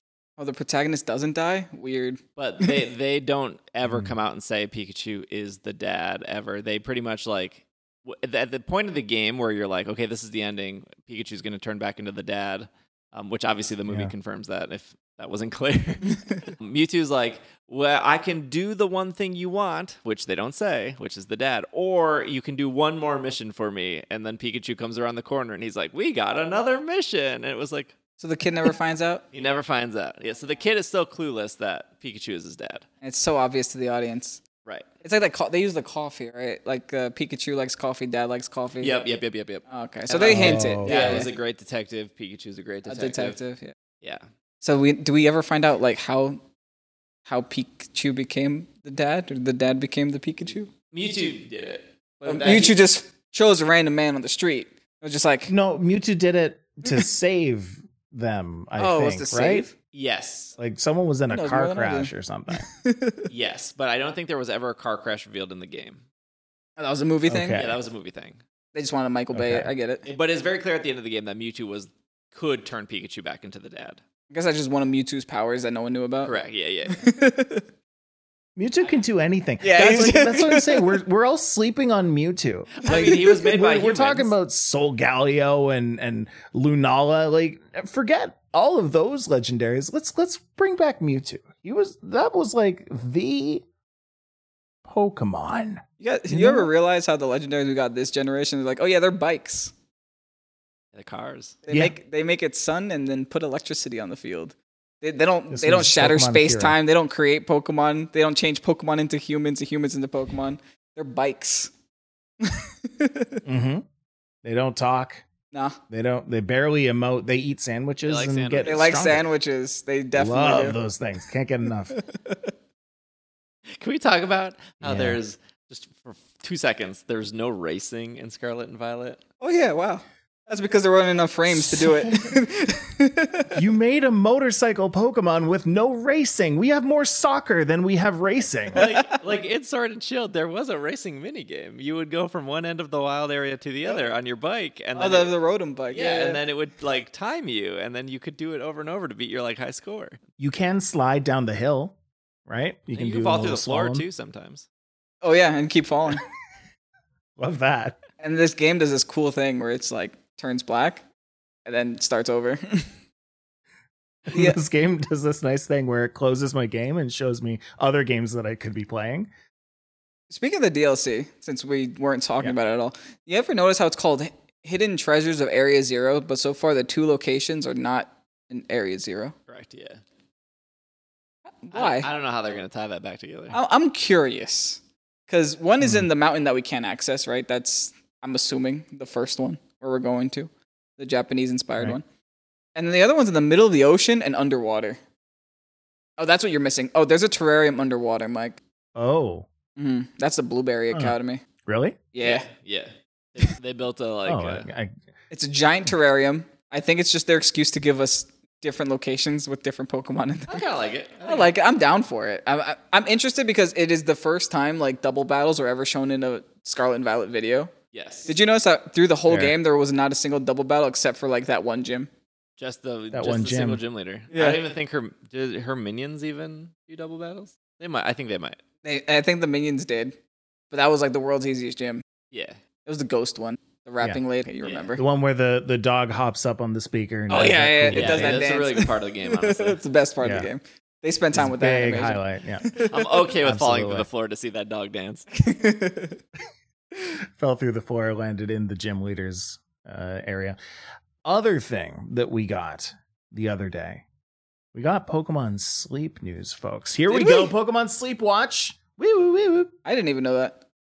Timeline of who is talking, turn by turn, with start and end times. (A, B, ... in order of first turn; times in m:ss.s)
0:00.4-0:02.8 A
0:02.4-0:27.9 B
0:03.9-0:04.1 C
0:13.9-0:14.1 C
0:28.2-0:29.2 A
0:29.3-0:32.8 B
0:33.0-0:34.4 A
0:35.0-0:39.0 A
0:38.8-0:43.4 B
0:39.7-0:41.3 A
0:40.3-0:41.3 C
0:42.8-0:43.7 A
0:44.6-0:46.4 A
0:47.2-0:50.7 A
0:50.9-0:52.7 B
0:52.2-0:55.5 A
0:55.5-0:59.7 C
0:58.8-0:59.7 A
0:59.9-1:00.5 B
1:00.6-1:02.7 C
1:01.3-1:03.3 A
1:03.3-1:06.0 B
1:06.8-1:07.6 A
1:07.3-1:07.8 C
1:07.5-1:08.4 B
1:08.7-1:10.0 A
1:09.3-1:09.7 C
1:10.0-1:14.0 B
1:14.3-1:16.3 A
1:16.2-1:17.0 B
1:16.9-1:17.7 A
1:18.6-1:33.6 C
1:19.6-1:20.9 A
1:22.8-1:24.3 B
1:22.9-1:23.3 A
1:34.8-1:36.7 C
1:36.0-1:39.7 A
1:40.9-1:41.6 B
1:41.6-1:51.7 A
1:45.5-1:46.8 C
1:52.4-1:53.4 A
1:53.4-1:53.8 C
1:54.4-1:55.2 C
1:55.5-1:55.8 A
1:55.9-1:59.3 C
1:58.0-1:59.2 B
1:58.6-2:00.8 A
2:00.1-2:02.0 C
2:01.9-2:02.5 A
2:03.8-2:09.2 B
2:04.8-2:05.2 C
2:09.4-2:13.6 A
2:13.5-2:18.9 C
2:18.7-2:25.3 B
2:18.7-2:19.2 A
2:25.0-2:26.4 A
2:25.9-2:30.2 B
2:30.4-2:31.9 C
2:32.4-2:34.0 C
2:32.9-2:34.6 B
2:35.2-2:36.2 A
2:37.4-2:38.0 C
2:38.2-2:41.0 A
2:41.6-2:42.9 A
2:44.2-2:49.3 C
2:44.3-2:44.6 A
2:50.3-2:59.3 A
2:59.5-3:00.0 B
3:01.6-3:02.1 A
3:01.7-3:03.5 B
3:03.5-3:12.0 A
3:12.8-3:15.0 A
3:16.2-3:18.6 A
3:19.0-3:19.5 C
3:19.8-3:21.4 A
3:21.6-3:22.0 C
3:22.1-3:22.5 A
3:22.2-3:24.6 B
3:24.2-3:24.9 C
3:25.3-3:30.6 A
3:30.5-3:31.5 B
3:31.2-3:37.7 A
3:37.9-3:38.3 B
3:38.3-3:42.1 A
3:39.3-3:39.6 C
3:42.6-3:48.6 B
3:43.1-3:43.8 C
3:44.3-3:44.6 A
3:48.8-3:50.2 A
3:50.7-3:52.0 A
3:52.3-3:52.6 B
3:52.8-3:55.0 A
3:55.0-3:58.4 C
3:57.3-4:03.2 A
3:57.9-3:59.8 B
4:00.2-4:00.5 C
4:01.3-4:02.7 C
4:02.8-4:05.3 B
4:03.4-4:04.1 C
4:05.3-4:06.2 A
4:07.2-4:10.6 C
4:11.2-4:14.0 C
4:14.7-4:19.7 C
4:17.1-4:17.5 A
4:19.8-4:20.6 A